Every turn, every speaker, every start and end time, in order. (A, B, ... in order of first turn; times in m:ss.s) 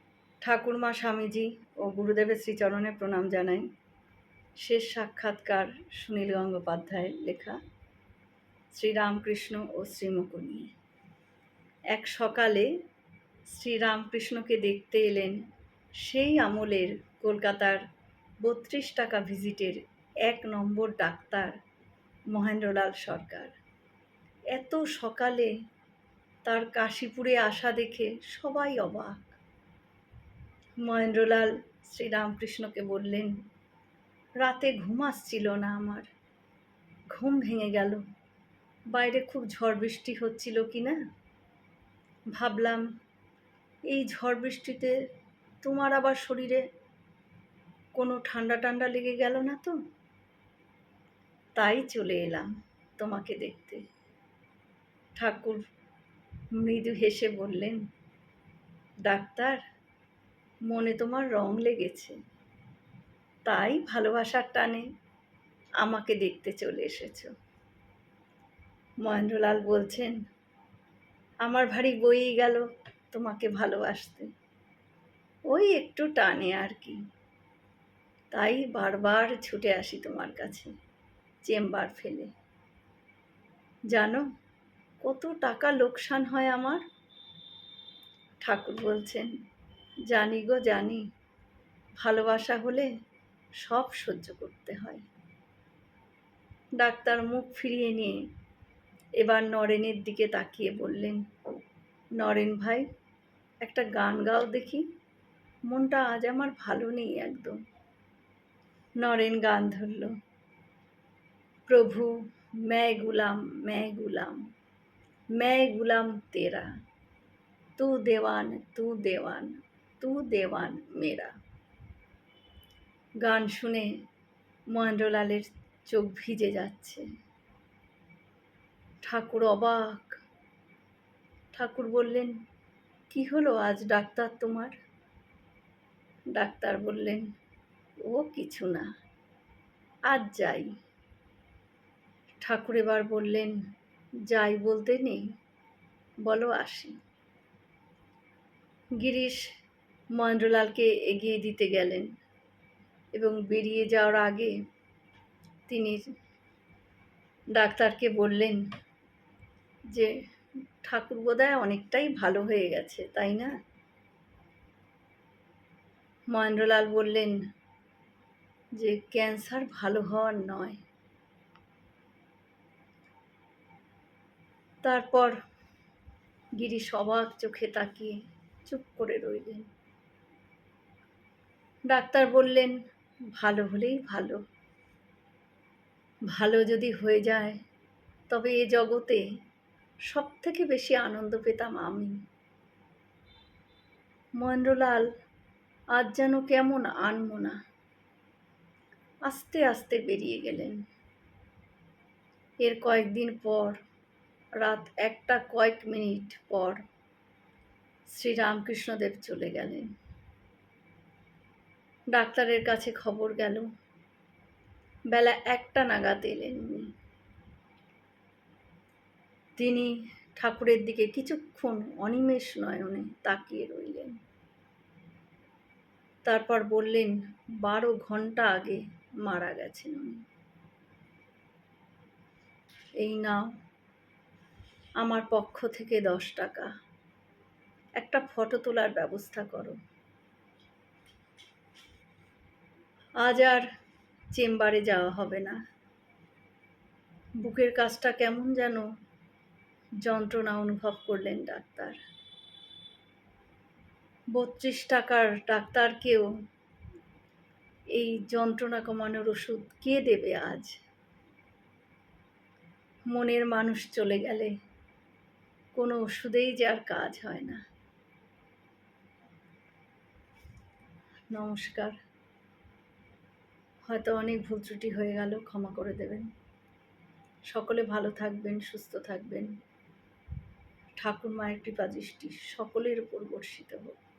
0:00.4-0:03.7 A
0:04.6-0:07.6 A
0:08.7-0:10.7 A
0:11.9-0:12.7 A
0:13.5-0:15.4 A
0:16.0-0:17.8 A
0:18.4-0:21.6 A
0:22.3-0:23.6 A
0:24.5-0:25.5 A
0:26.4-0:29.4 A
0:30.8-0:33.3 A
0:34.4-0:36.1 A
0:37.1-0:38.0 A
0:38.9-0:41.0 A
0:42.3-0:42.8 A
0:43.9-0:45.0 A
0:45.6-0:46.6 A
0:48.0-0:49.8 A
0:51.6-0:53.8 A
0:55.2-0:55.6 A
0:56.5-0:57.8 A
0:59.0-0:59.6 A
1:00.7-1:02.2 A
1:03.4-1:04.9 A
1:05.8-1:07.3 A
1:09.0-1:10.2 A
1:11.4-1:14.3 A
1:15.5-1:17.0 A
1:18.3-1:20.7 A
1:21.4-1:22.3 A
1:23.9-1:24.2 A
1:25.0-1:26.8 A
1:28.4-1:29.3 A
1:30.1-1:31.0 A
1:32.0-1:32.9 A
1:33.6-1:35.0 A
1:36.8-1:38.2 A
1:39.2-1:41.2 A
1:42.2-1:42.9 A
1:43.6-1:44.9 A
1:45.7-1:47.6 A
1:49.0-1:50.2 A
1:51.7-1:52.1 A
1:52.7-1:54.4 A
1:55.4-1:56.7 A
1:57.8-2:01.3 A
2:03.2-2:03.9 A
2:04.7-2:07.0 A
2:09.0-2:10.2 A
2:11.5-2:12.3 A
2:13.1-2:14.7 A
2:16.3-2:17.2 A
2:18.0-2:18.9 A
2:20.1-2:20.7 A
2:22.4-2:23.6 A
2:24.3-2:25.2 A
2:26.2-2:27.0 A
2:29.0-2:29.5 A
2:30.2-2:32.1 A
2:33.1-2:34.5 A
2:35.7-2:36.0 A
2:37.5-2:38.6 A
2:40.8-2:43.5 A
2:46.3-2:47.4 A
2:48.8-2:50.8 A
2:54.8-2:55.4 A
2:56.6-2:58.1 A
2:58.7-2:59.7 A
3:01.9-3:02.8 A
3:03.4-3:04.4 A
3:06.3-3:07.6 A
3:08.3-3:09.2 A
3:10.1-3:12.1 A
3:14.4-3:15.0 A
3:15.9-3:17.6 A
3:19.2-3:20.8 A
3:22.6-3:23.8 A
3:24.6-3:26.8 A
3:28.1-3:29.9 A
3:32.1-3:33.7 A
3:35.1-3:36.9 A
3:39.6-3:44.2 A
3:46.2-3:50.2 A
3:53.0-3:53.5 A
3:55.0-3:56.7 A
3:58.0-3:59.8 A
4:03.2-4:03.7 A
4:04.3-4:05.6 A
4:07.4-4:08.9 A
4:10.0-4:12.0 A
4:14.3-4:16.3 A
4:17.9-4:20.8 A
4:23.1-4:24.6 A
4:25.8-4:27.6 A
4:31.3-4:32.0 A
4:33.9-4:36.3 A
4:37.5-4:39.5 A
4:41.0-4:44.0 A